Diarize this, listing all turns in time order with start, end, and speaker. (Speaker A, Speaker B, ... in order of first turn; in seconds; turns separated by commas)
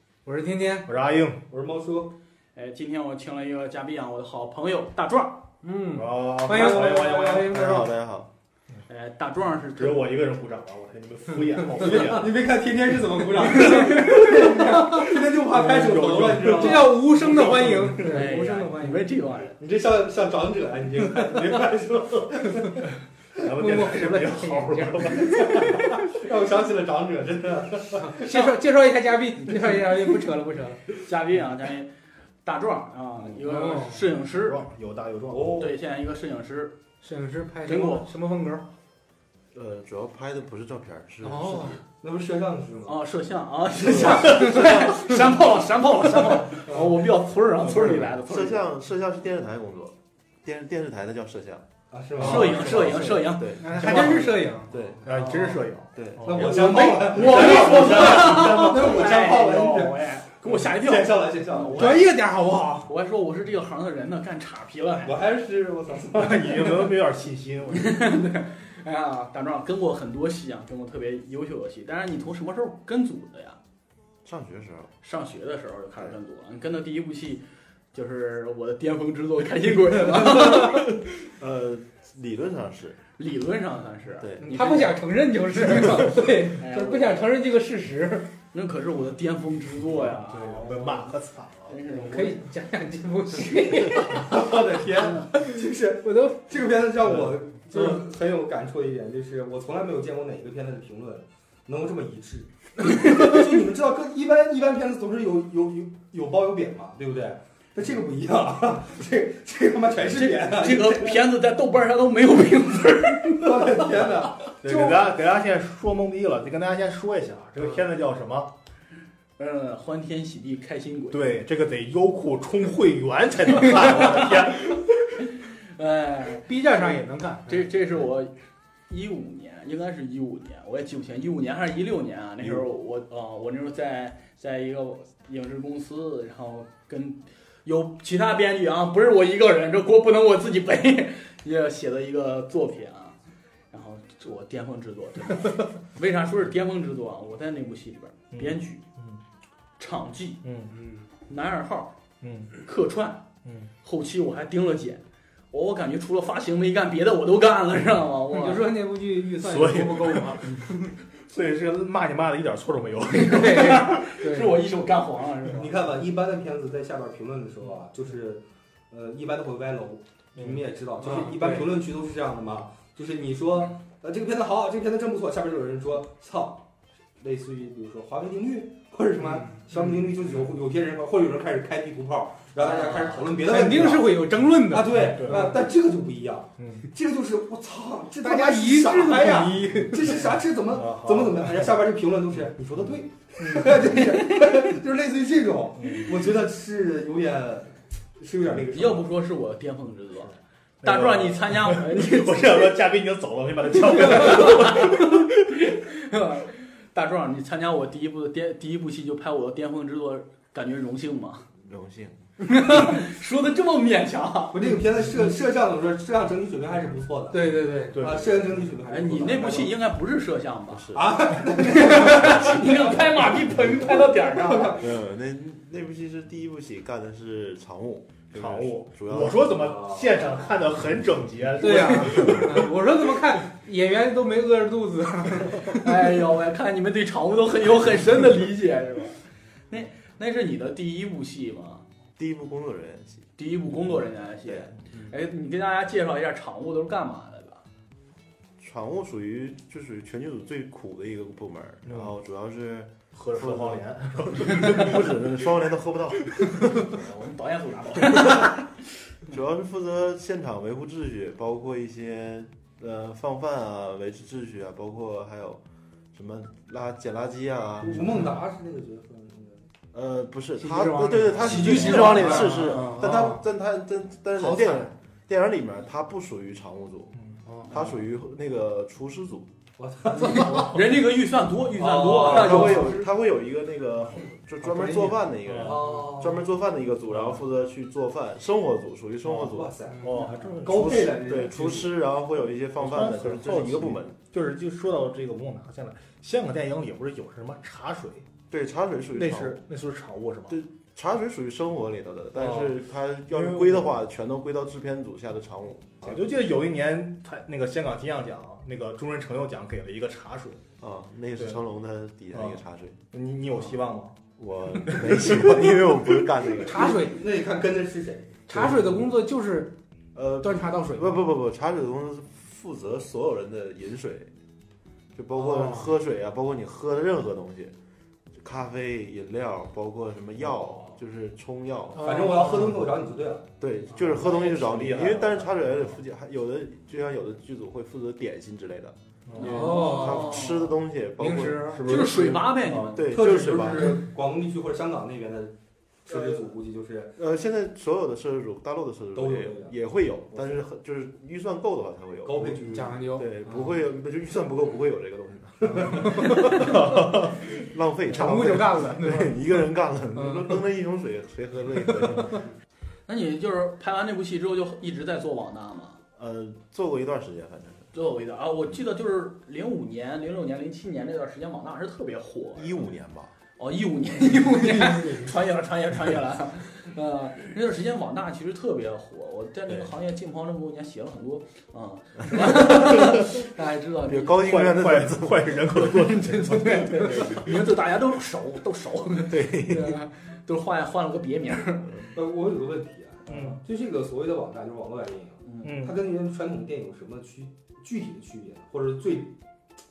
Speaker A: 0.2-0.9, Speaker B: 0.8-1.4, Speaker C: 1.5-2.1, Speaker D: 2.5-5.5, Speaker A: 5.6-7.9, Speaker B: 5.9-7.6, Speaker C: 6.5-7.5, Speaker E: 7.5-8.3, Speaker D: 8.9-10.1, Speaker B: 9.8-12.4, Speaker C: 11.8-17.0, Speaker B: 15.3-18.2, Speaker A: 16.5-19.1, Speaker D: 18.0-19.6, Speaker C: 19.6-22.9, Speaker B: 23.4-26.0, Speaker A: 23.5-25.6, Speaker C: 25.4-28.5, Speaker A: 28.0-30.9, Speaker D: 31.0-31.9, Speaker D: 32.4-34.6, Speaker A: 33.4-34.0, Speaker B: 34.1-35.7, Speaker C: 35.3-35.7, Speaker D: 35.5-36.8, Speaker A: 37.0-38.7, Speaker D: 37.7-38.1, Speaker E: 39.5-41.8, Speaker A: 41.2-41.8, Speaker C: 42.0-43.0, Speaker D: 42.9-48.7, Speaker E: 43.8-45.1, Speaker C: 46.6-47.0, Speaker E: 47.9-51.7, Speaker C: 51.9-53.0, Speaker D: 52.2-54.3, Speaker B: 52.2-52.6, Speaker E: 52.2-55.1, Speaker A: 53.6-54.7, Speaker B: 53.7-54.3, Speaker B: 55.0-58.9, Speaker E: 55.9-56.7, Speaker C: 56.2-62.0, Speaker D: 56.4-62.1, Speaker A: 61.7-62.9, Speaker D: 62.9-65.3, Speaker C: 65.0-67.0, Speaker B: 66.1-68.2, Speaker D: 67.7-73.6, Speaker E: 74.2-74.9, Speaker D: 75.0-81.0, Speaker E: 80.2-83.0, Speaker D: 83.2-85.0, Speaker E: 84.2-84.7, Speaker A: 84.4-88.3, Speaker D: 85.7-87.3, Speaker D: 88.5-92.4, Speaker B: 90.1-91.8, Speaker A: 91.9-94.5, Speaker C: 94.1-111.3, Speaker A: 95.2-95.5, Speaker A: 96.0-96.4, Speaker D: 110.0-113.8, Speaker C: 113.3-114.5, Speaker B: 114.6-118.5, Speaker D: 119.4-121.4, Speaker B: 121.1-125.1, Speaker D: 123.6-124.5, Speaker D: 125.3-126.9, Speaker A: 126.5-127.8, Speaker D: 127.5-128.3, Speaker D: 128.9-143.2, Speaker D: 143.7-148.8, Speaker B: 148.3-149.2, Speaker D: 149.8-150.4, Speaker B: 150.4-150.8, Speaker A: 150.7-151.1, Speaker D: 151.3-152.0, Speaker B: 152.2-152.5, Speaker D: 152.6-153.2, Speaker B: 153.4-153.7, Speaker D: 153.8-158.7, Speaker A: 158.3-160.7, Speaker B: 159.4-163.9, Speaker D: 163.2-165.7, Speaker A: 163.2-164.6, Speaker C: 165.4-176.7, Speaker B: 170.3-170.7, Speaker A: 171.0-171.8, Speaker C: 177.2-199.1, Speaker A: 179.2-179.5, Speaker D: 182.6-183.3, Speaker A: 183.3-185.6, Speaker B: 184.9-185.6, Speaker B: 186.6-186.9, Speaker A: 188.2-190.3, Speaker B: 190.7-191.8, Speaker D: 193.9-194.5, Speaker B: 195.8-196.3, Speaker D: 198.7-202.7, Speaker B: 200.8-205.3, Speaker D: 203.8-211.5, Speaker E: 211.6-212.2, Speaker D: 212.4-214.6, Speaker C: 214.5-217.4, Speaker A: 217.3-218.2, Speaker B: 217.9-218.6, Speaker C: 217.9-219.8, Speaker D: 218.9-224.8, Speaker E: 220.7-221.2, Speaker C: 220.9-225.0, Speaker E: 224.8-229.5, Speaker B: 228.3-232.7, Speaker C: 229.6-230.2, Speaker A: 231.6-236.0, Speaker D: 235.7-241.8, Speaker E: 242.2-243.3, Speaker D: 243.4-247.6, Speaker E: 244.4-245.1, Speaker E: 248.6-253.8, Speaker B: 251.8-252.1, Speaker B: 253.1-255.1, Speaker E: 254.4-257.0, Speaker D: 256.8-258.8, Speaker E: 259.3-265.6, Speaker E: 266.1-268.2, Speaker C: 267.8-269.7, Speaker E: 269.9-279.5, Speaker A: 270.6-273.4, Speaker D: 271.4-272.6, Speaker A: 274.4-274.9, Speaker A: 277.4-277.7, Speaker C: 279.8-280.8, Speaker D: 280.3-283.1, Speaker C: 281.7-282.8, Speaker E: 282.0-289.7, Speaker A: 284.6-285.2, Speaker B: 285.4-285.9, Speaker C: 285.6-286.4, Speaker C: 289.3-291.9, Speaker A: 289.9-290.4, Speaker B: 290.0-291.2, Speaker E: 290.6-294.2, Speaker B: 292.8-298.3, Speaker E: 298.5-299.6, Speaker B: 299.1-300.6, Speaker E: 300.5-306.1, Speaker B: 302.3-302.7, Speaker B: 303.3-303.9, Speaker B: 306.0-310.6, Speaker E: 310.8-313.0, Speaker B: 312.3-312.6, Speaker B: 313.1-314.2, Speaker E: 314.4-316.9, Speaker B: 314.9-315.2, Speaker A: 316.6-317.2, Speaker C: 316.6-318.5, Speaker A: 318.5-319.8, Speaker E: 320.1-324.3, Speaker A: 320.4-321.3, Speaker E: 325.1-327.7, Speaker A: 325.5-325.9, Speaker E: 328.3-332.1, Speaker A: 332.0-332.8, Speaker C: 332.0-333.5, Speaker E: 333.6-344.1, Speaker B: 333.9-336.0, Speaker B: 339.3-339.7, Speaker C: 339.4-340.0, Speaker A: 339.4-340.5, Speaker D: 339.5-340.6, Speaker A: 341.2-342.0, Speaker B: 341.7-343.1, Speaker D: 341.8-343.1, Speaker C: 343.0-347.2, Speaker E: 347.2-362.5, Speaker C: 349.1-349.8, Speaker C: 350.3-350.6, Speaker C: 352.2-353.1, Speaker A: 352.7-353.8, Speaker B: 356.6-357.1, Speaker A: 358.1-359.6, Speaker A: 360.1-360.6, Speaker D: 363.1-366.0, Speaker E: 366.1-367.9, Speaker D: 367.9-372.9, Speaker E: 372.5-373.3, Speaker D: 373.6-384.5, Speaker A: 374.6-375.3, Speaker E: 382.4-383.3, Speaker E: 384.0-386.1, Speaker B: 384.4-387.5, Speaker D: 386.1-392.1, Speaker E: 387.2-387.5, Speaker E: 389.1-390.1, Speaker C: 392.1-399.4, Speaker B: 393.3-393.6, Speaker D: 395.4-395.8, Speaker B: 395.6-396.0